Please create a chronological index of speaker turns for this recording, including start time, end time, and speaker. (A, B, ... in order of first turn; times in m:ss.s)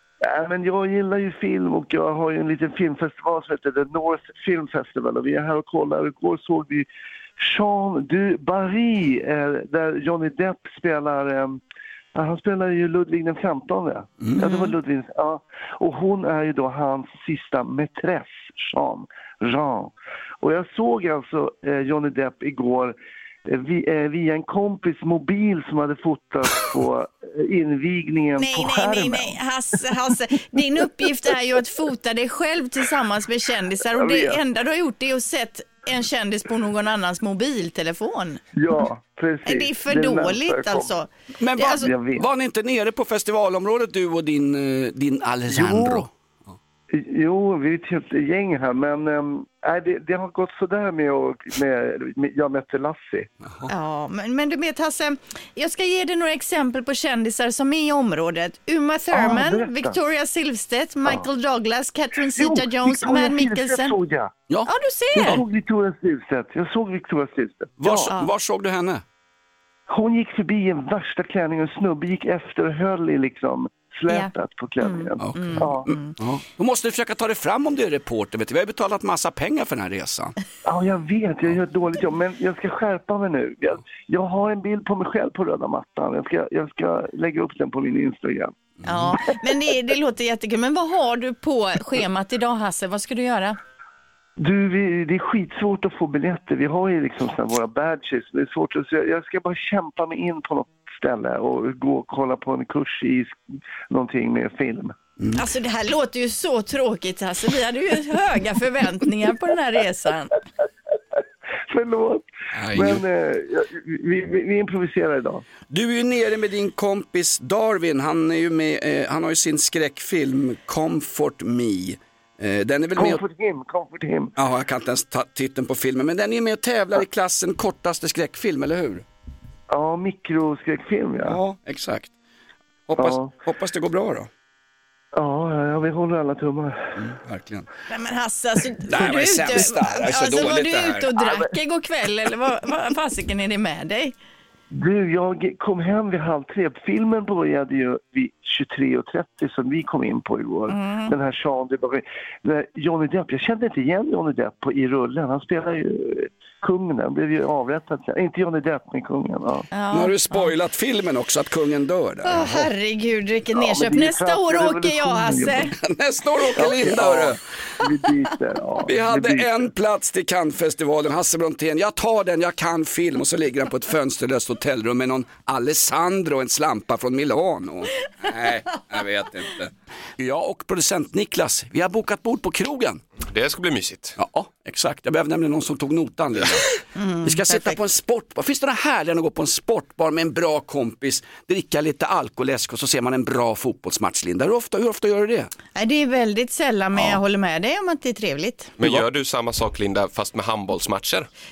0:00.2-0:06.9 A
0:07.4-0:11.6 A
0:12.1-0:29.4 A
0:14.2-0:14.7 B
0:28.4-0:38.4 C
0:33.9-0:34.4 A
0:38.6-0:40.9 A
0:39.4-0:41.9 C
0:41.4-0:46.5 B
0:41.7-0:42.2 A
0:45.5-0:46.0 A
0:46.9-0:53.3 A
0:53.7-1:04.0 C
0:59.1-1:00.0 A
1:02.3-1:04.3 A
1:04.5-1:05.4 B
1:04.7-1:05.4 C
1:05.2-1:08.1 A
1:07.8-1:09.0 B
1:09.9-1:15.9 A
1:14.1-1:16.1 C
1:15.2-1:20.3 B
1:20.6-1:28.5 A
1:28.8-1:33.6 C
1:34.4-1:43.4 A
1:43.9-1:45.0 A
1:45.3-1:50.3 C
1:51.7-1:55.4 A
1:52.7-1:53.0 B
1:52.7-1:53.0 D
1:55.7-2:03.2 B
2:03.0-2:04.3 A
2:04.4-2:09.0 B
2:09.7-2:11.4 A
2:11.2-2:12.1 B
2:12.9-2:14.3 B
2:13.0-2:13.3 A
2:15.1-2:17.0 A
2:17.0-2:17.6 B
2:17.9-2:24.1 C
2:18.8-2:21.1 B
2:24.7-2:39.7 A
2:30.7-2:31.1 C
2:39.7-2:40.5 C
2:39.9-2:42.7 B
2:42.2-2:45.7 C
2:43.5-2:45.7 A
2:45.8-2:47.4 B
2:46.5-2:49.7 A
2:48.8-3:03.0 B
3:03.2-3:04.2 D
3:04.2-3:06.7 B
3:06.9-3:07.8 C
3:07.2-3:15.5 B
3:15.8-3:18.7 C
3:16.9-3:17.2 B
3:18.8-3:21.3 D